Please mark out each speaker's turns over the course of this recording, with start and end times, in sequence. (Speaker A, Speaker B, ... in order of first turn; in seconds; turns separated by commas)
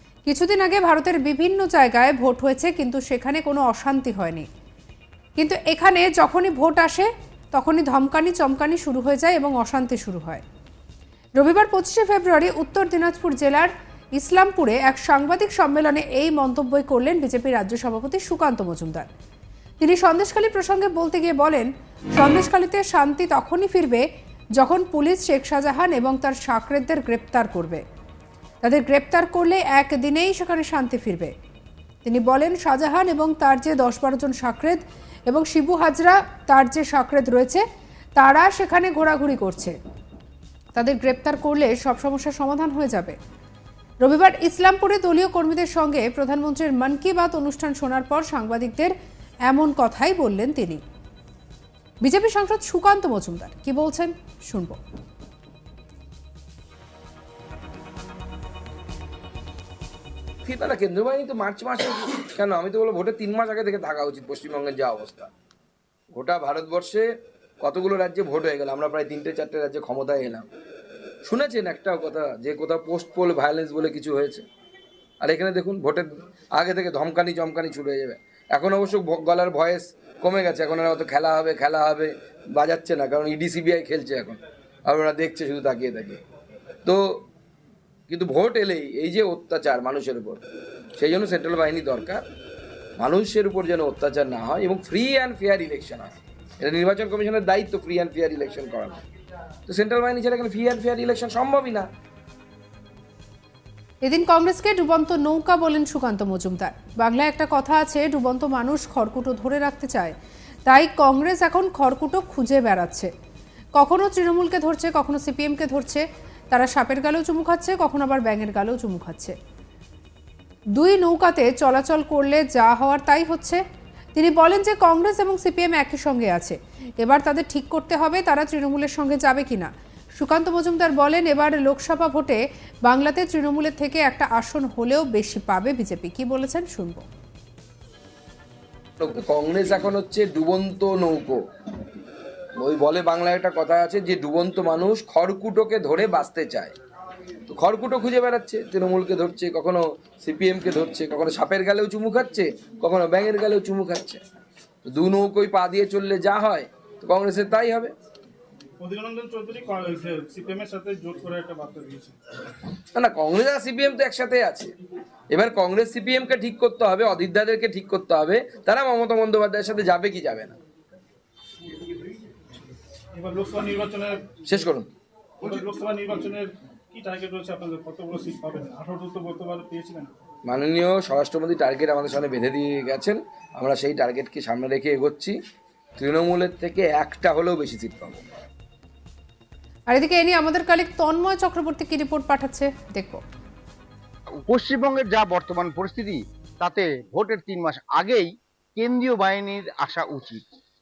Speaker A: 0.2-4.5, Speaker A: 5.4-10.4, Speaker A: 11.4-19.1, Speaker A: 19.8-24.1, Speaker A: 24.6-27.8, Speaker A: 28.6-31.3, Speaker A: 32.0-37.6, Speaker A: 38.2-39.8, Speaker A: 40.7-43.2, Speaker A: 44.0-48.9, Speaker A: 49.5-50.8, Speaker A: 52.0-54.8, Speaker B: 60.5-65.3, Speaker B: 66.1-67.0, Speaker B: 67.6-70.5, Speaker B: 71.2-74.4, Speaker B: 75.2-86.2, Speaker B: 88.1-90.4, Speaker B: 91.0-92.2, Speaker B: 93.0-99.0, Speaker B: 99.7-101.9, Speaker A: 104.0-113.1, Speaker A: 113.8-119.3, Speaker A: 120.8-123.6, Speaker A: 124.1-137.1, Speaker B: 139.0-141.4, Speaker B: 142.6-146.7, Speaker B: 147.5-154.2, Speaker B: 154.8-157.9, Speaker C: 158.8-162.2, Speaker B: 162.9-164.7, Speaker B: 165.3-170.6, Speaker C: 173.2-174.4, Speaker B: 174.5-174.9, Speaker C: 175.4-180.1, Speaker B: 180.5-185.4, Speaker B: 186.0-188.2, Speaker A: 189.9-193.2, Speaker D: 194.5-200.4